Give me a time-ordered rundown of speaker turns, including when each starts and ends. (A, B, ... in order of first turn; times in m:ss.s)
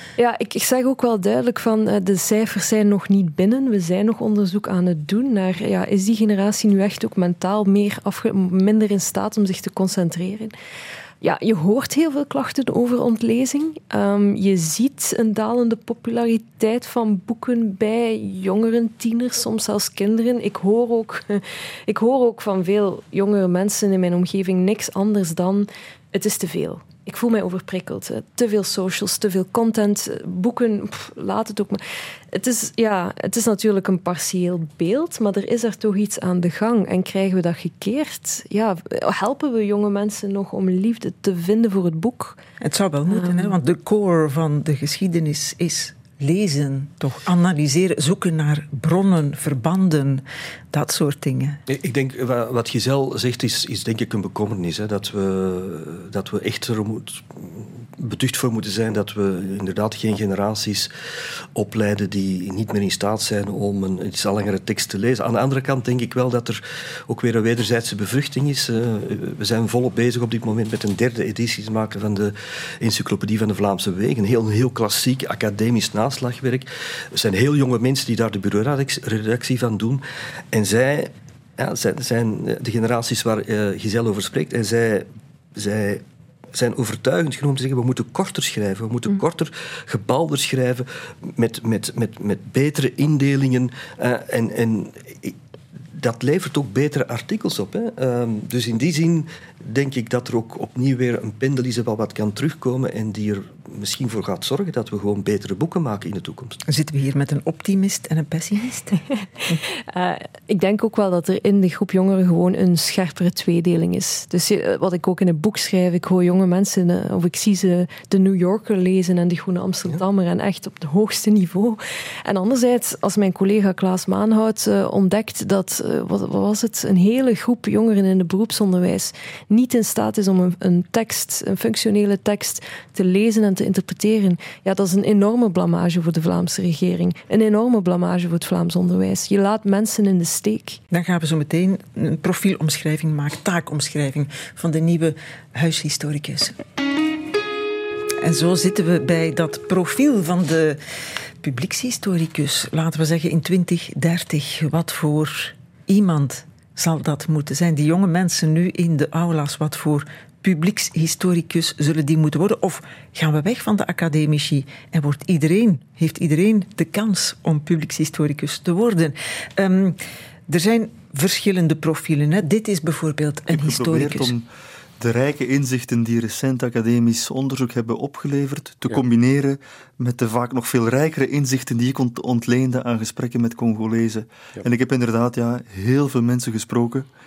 0:00.2-0:10.5 A
0:11.2-0:31.8 A
0:32.3-0:42.4 A
0:42.6-0:51.6 B
0:43.1-0:43.6 A
0:51.7-1:00.9 C
1:01.6-1:35.4 C
1:35.9-1:46.6 C
1:46.7-1:49.0 B
1:49.7-2:20.8 A
2:20.9-2:26.6 B
2:28.2-2:30.8 B
2:31.4-2:54.4 B
2:53.5-2:54.5 D
2:55.0-3:07.1 D